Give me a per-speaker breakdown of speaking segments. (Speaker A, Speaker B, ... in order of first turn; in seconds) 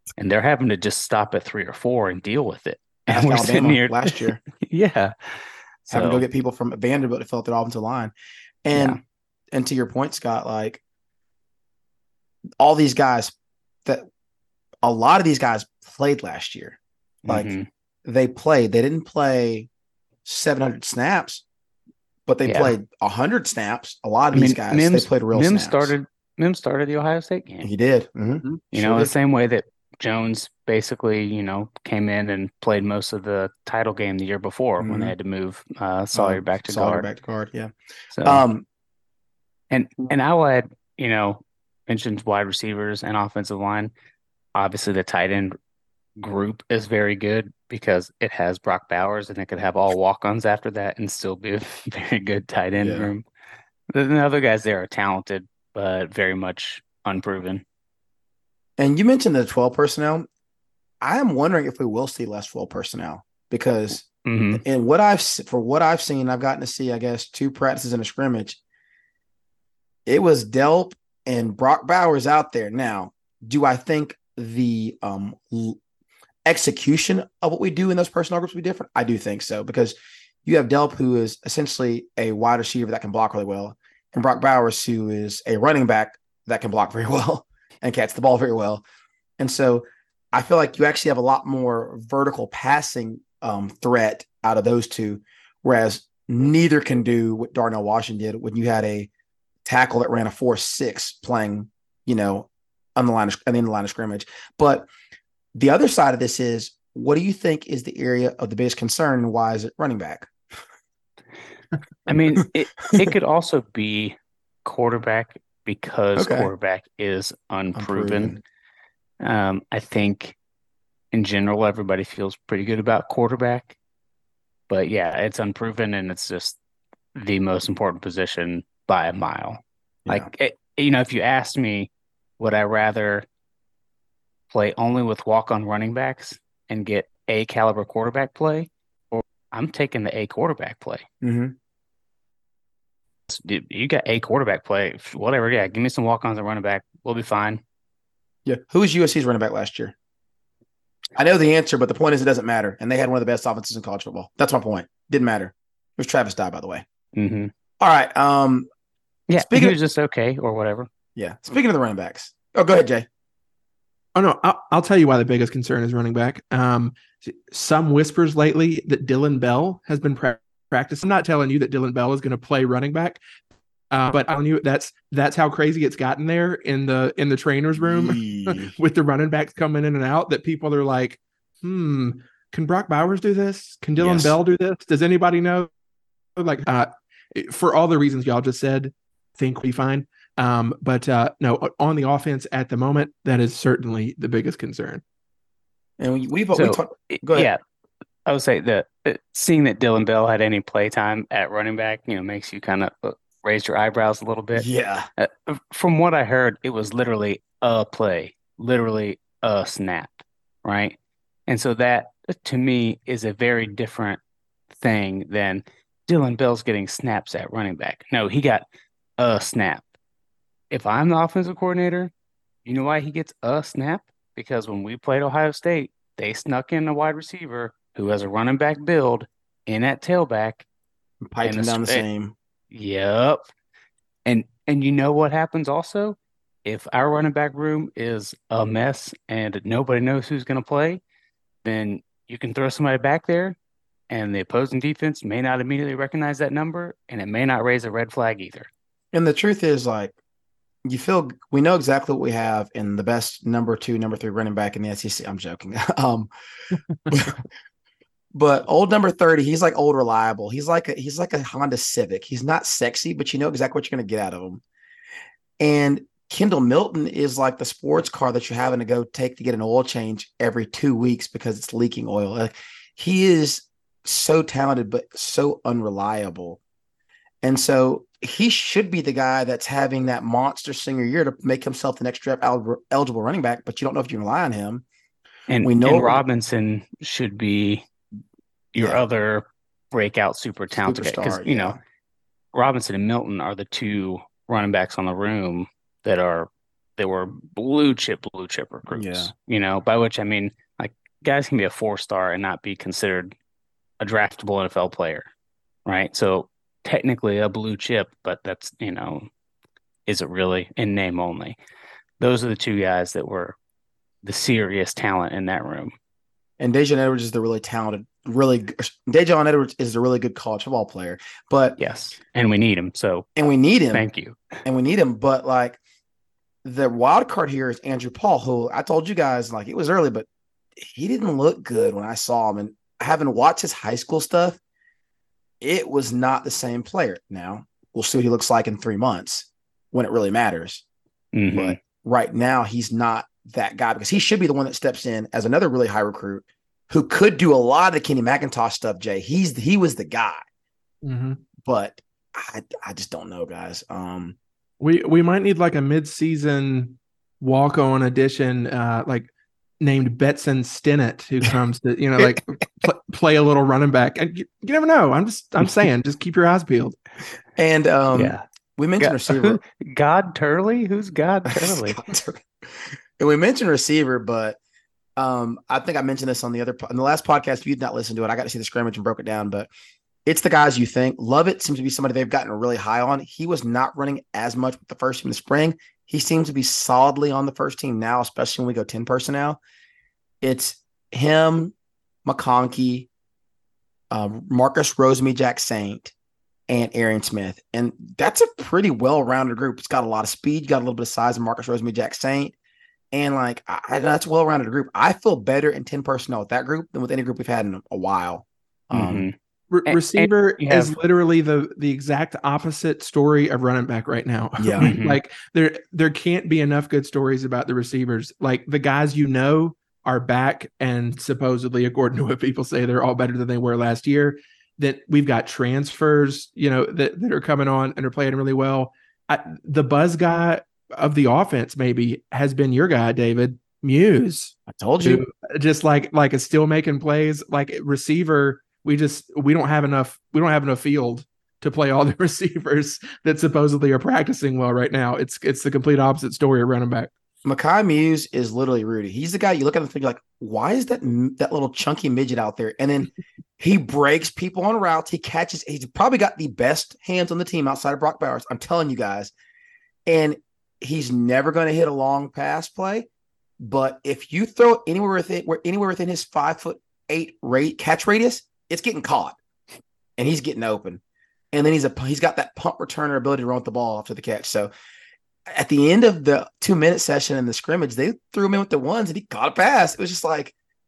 Speaker A: 0.2-6.2, 8.7-9.0, 17.2-17.7, 22.5-22.8, 24.3-27.7, 28.7-37.1, 38.1-38.4, 39.7-43.9, 44.5-45.6, 46.2-53.2, 53.9-57.6, 64.2-64.6, 112.1-118.4, 119.2-120.4, 121.1-123.8, 124.7-126.6, 127.2-133.3, 134.5-141.1, 143.3-147.6, 157.1-157.5, 159.3-160.9, 196.5-197.6, 198.3-211.0, 211.5-218.7, 219.2-219.9, 220.7-222.1, 222.7-230.7, 231.4-232.1, 232.7-233.4, 234.2-241.0, 241.6-243.6, 244.1-248.7, 285.5-287.9, 288.7-291.8, 292.5-303.3, 304.0-305.3, 305.9-309.3, 310.1-311.6, 312.2-313.6, 314.2-315.9, 321.8-323.3, 323.9-324.6, 341.3-341.8, 368.1-368.4, 369.0-372.0, 408.9-409.4, 409.9-410.9, 414.8-415.2
Speaker B: 3.1-4.4, 5.9-8.1, 8.6-9.0, 9.5-10.8, 12.6-13.3, 14.8-17.5, 18.1-19.7, 20.2-21.4, 22.3-25.9, 27.6-29.1, 34.8-35.1, 36.1-37.7, 38.2-38.6, 52.8-53.1, 58.8-60.3, 61.0-68.6, 70.1-75.8, 76.5-88.8, 89.4-99.1, 99.7-104.9, 105.5-110.3, 116.2-116.5, 117.8-118.4, 141.2-141.6, 148.4-149.9, 151.2-156.8, 157.8-158.7, 159.3-159.8, 161.2-163.1, 177.8-178.7, 184.0-184.4, 196.0-197.5, 204.6-205.1, 231.2-232.3, 249.1-250.2, 250.8-256.3, 257.1-257.4, 258.3-264.6, 265.6-276.6, 277.4-284.9, 285.6-286.2, 288.8-289.0, 290.8-291.8, 298.9-299.3, 316.6-321.8, 323.4-324.1, 324.6-325.8, 326.6-334.6, 335.6-340.8, 341.5-350.4, 351.6-354.4, 367.6-369.6, 371.5-374.6, 375.2-379.7, 380.3-389.6, 390.4-391.7, 392.2-393.1, 394.1-396.1, 396.7-402.6, 403.1-409.3, 414.6-414.9, 434.7-435.2, 447.4-459.3, 460.1-463.1, 463.6-469.4, 470.2-471.0, 471.5-474.7, 475.5-480.5
Speaker C: 164.2-173.2, 173.9-185.7, 186.4-195.0, 351.0-351.4, 354.8-359.3, 359.8-367.0, 409.7-447.1